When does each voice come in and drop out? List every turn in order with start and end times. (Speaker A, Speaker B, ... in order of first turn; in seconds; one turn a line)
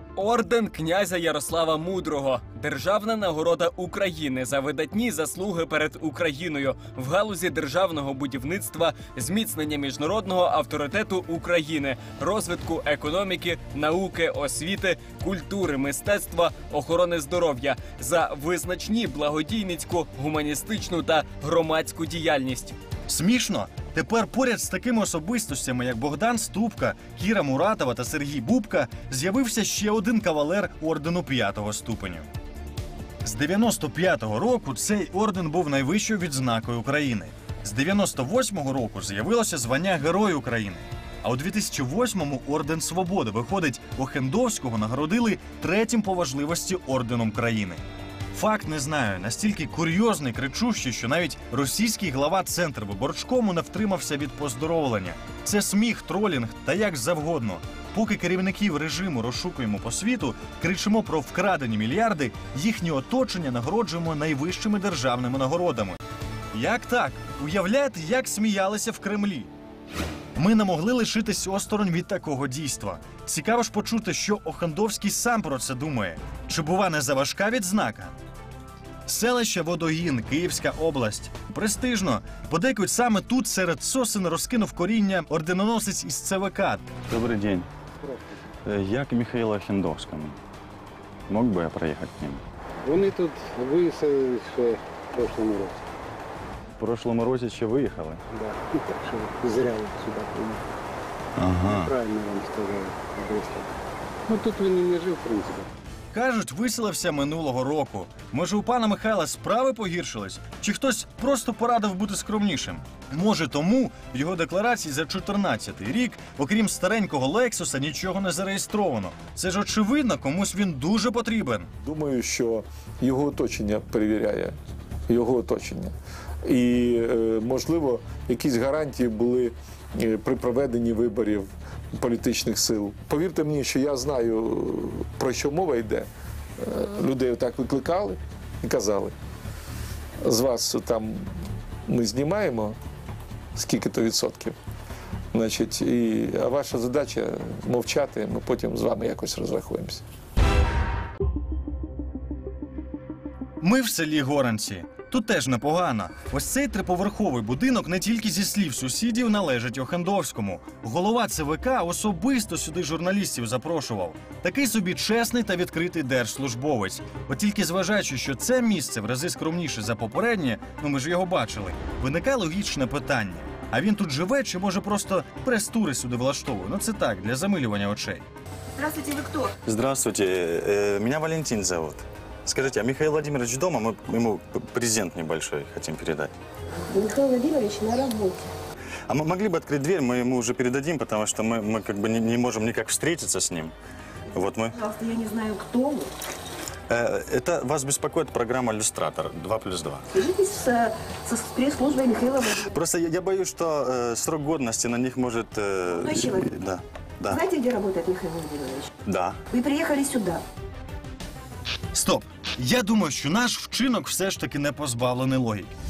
Speaker A: 0.2-22.8
Speaker B: 23.1-32.3
Speaker B: 33.2-47.8
Speaker B: 48.3-66.0
Speaker B: 66.5-69.5
Speaker B: 70.3-78.1
Speaker B: 79.1-86.9
Speaker C: 87.1-87.7
Speaker C: 88.7-90.4
Speaker C: 91.3-92.4
Speaker D: 92.8-95.8
Speaker C: 96.8-98.2
Speaker D: 98.3-100.6
Speaker B: 101.4-101.9
Speaker D: 101.6-103.7
Speaker D: 104.3-105.7
Speaker B: 106.1-121.7
Speaker E: 121.8-124.5
Speaker E: 125.1-125.9
Speaker E: 126.4-139.1
Speaker E: 140.2-141.3
Speaker E: 141.9-142.8
Speaker E: 143.6-144.6
Speaker E: 145.3-150.0
Speaker B: 153.6-178.2
Speaker F: 178.8-179.5
Speaker C: 179.6-186.3
Speaker F: 186.7-188.5
Speaker C: 189.1-193.7
Speaker C: 194.3-194.8
Speaker F: 194.3-196.1
Speaker C: 196.9-200.1
Speaker F: 200.1-202.7
Speaker C: 202.7-207.4
Speaker F: 205.9-206.5
Speaker F: 207.2-208.9
Speaker C: 209.1-209.4
Speaker F: 209.5-210.4
Speaker B: 211.9-215.7